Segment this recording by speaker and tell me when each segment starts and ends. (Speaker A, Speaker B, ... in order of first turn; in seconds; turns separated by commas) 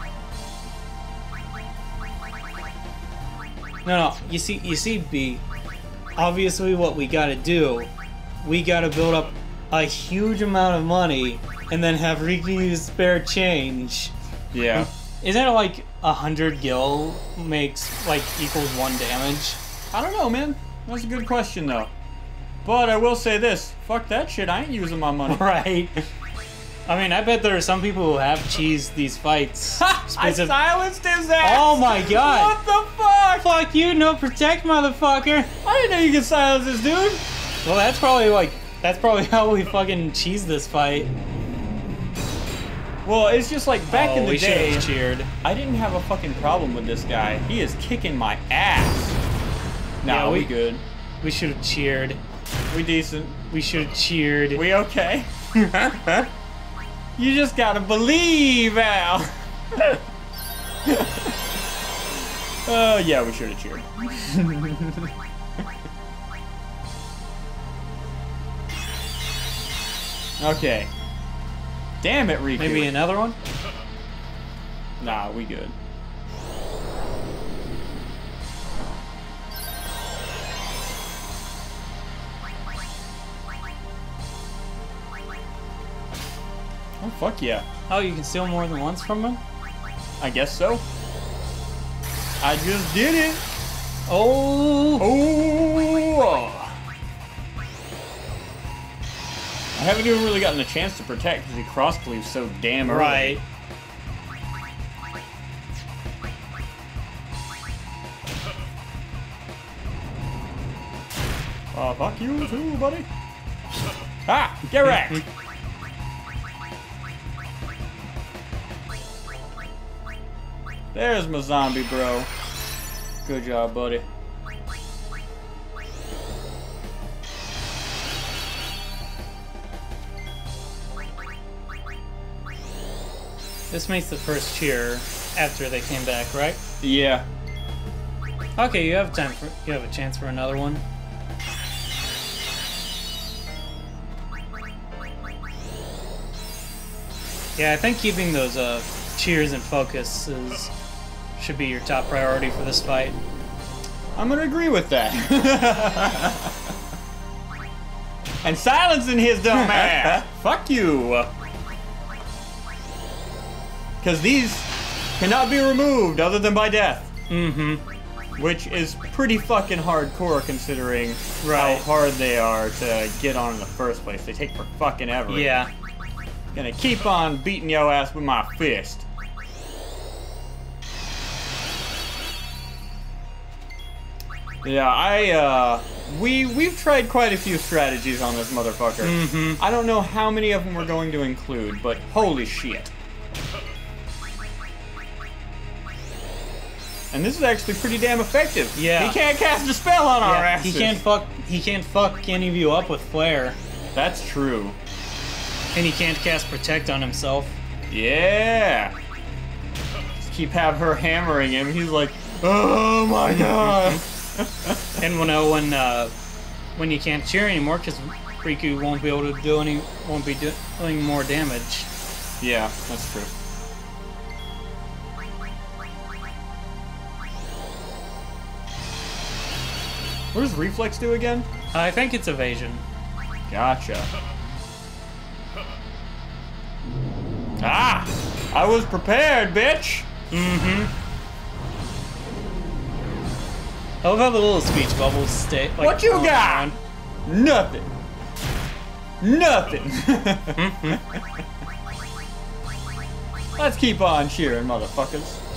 Speaker A: 3.8-5.4, Speaker A: 6.2-7.9, Speaker A: 8.4-14.1, Speaker B: 14.5-14.9, Speaker A: 14.8-19.6, Speaker B: 19.9-21.9, Speaker B: 22.6-25.4, Speaker A: 25.3-26.0, Speaker A: 26.9-30.5, Speaker B: 29.8-33.5, Speaker A: 31.4-32.5, Speaker A: 33.4-35.5, Speaker B: 35.6-37.2, Speaker A: 37.6-41.1, Speaker B: 43.0-44.9, Speaker A: 43.9-45.3, Speaker B: 45.4-49.2, Speaker B: 50.0-50.8, Speaker A: 50.0-50.5, Speaker A: 51.2-52.2, Speaker B: 52.7-53.5, Speaker A: 53.5-54.6, Speaker B: 54.5-55.3, Speaker A: 55.5-56.3, Speaker B: 57.2-60.0, Speaker B: 60.9-61.3, Speaker B: 62.6-65.1, Speaker B: 70.4-70.9, Speaker B: 72.0-72.9, Speaker A: 72.6-73.3, Speaker B: 75.0-75.7, Speaker B: 87.0-87.7, Speaker A: 87.9-89.4, Speaker B: 90.2-90.8, Speaker B: 92.4-93.4, Speaker A: 94.1-95.1, Speaker B: 95.0-96.8, Speaker B: 99.7-103.4, Speaker A: 102.8-103.4, Speaker B: 111.7-113.0, Speaker B: 114.2-115.2, Speaker B: 120.9-122.3, Speaker B: 123.2-124.0, Speaker A: 133.7-136.6, Speaker B: 136.8-137.3, Speaker A: 138.6-140.8, Speaker A: 147.6-150.7, Speaker A: 151.4-153.2, Speaker B: 154.2-156.5, Speaker B: 158.4-161.3, Speaker A: 159.5-160.2, Speaker B: 164.0-164.7, Speaker B: 165.2-167.1, Speaker A: 167.3-167.8, Speaker B: 168.4-175.5, Speaker A: 171.4-171.8, Speaker A: 175.3-175.7, Speaker B: 176.5-179.0, Speaker B: 184.6-192.9, Speaker A: 189.0-189.6, Speaker B: 197.1-201.0, Speaker A: 198.7-199.2, Speaker A: 200.2-203.6, Speaker B: 203.9-204.8, Speaker A: 205.7-207.6, Speaker B: 207.9-208.9, Speaker B: 210.2-214.8, Speaker A: 213.3-214.0, Speaker A: 215.0-216.1, Speaker A: 216.7-221.9, Speaker B: 222.4-223.3, Speaker B: 230.3-231.5, Speaker A: 231.7-232.8, Speaker B: 233.5-234.1, Speaker B: 237.6-240.1, Speaker A: 240.3-240.9, Speaker A: 244.0-246.8, Speaker B: 245.8-246.7, Speaker B: 247.2-247.9, Speaker B: 249.2-251.2, Speaker A: 250.6-251.0, Speaker B: 253.6-255.4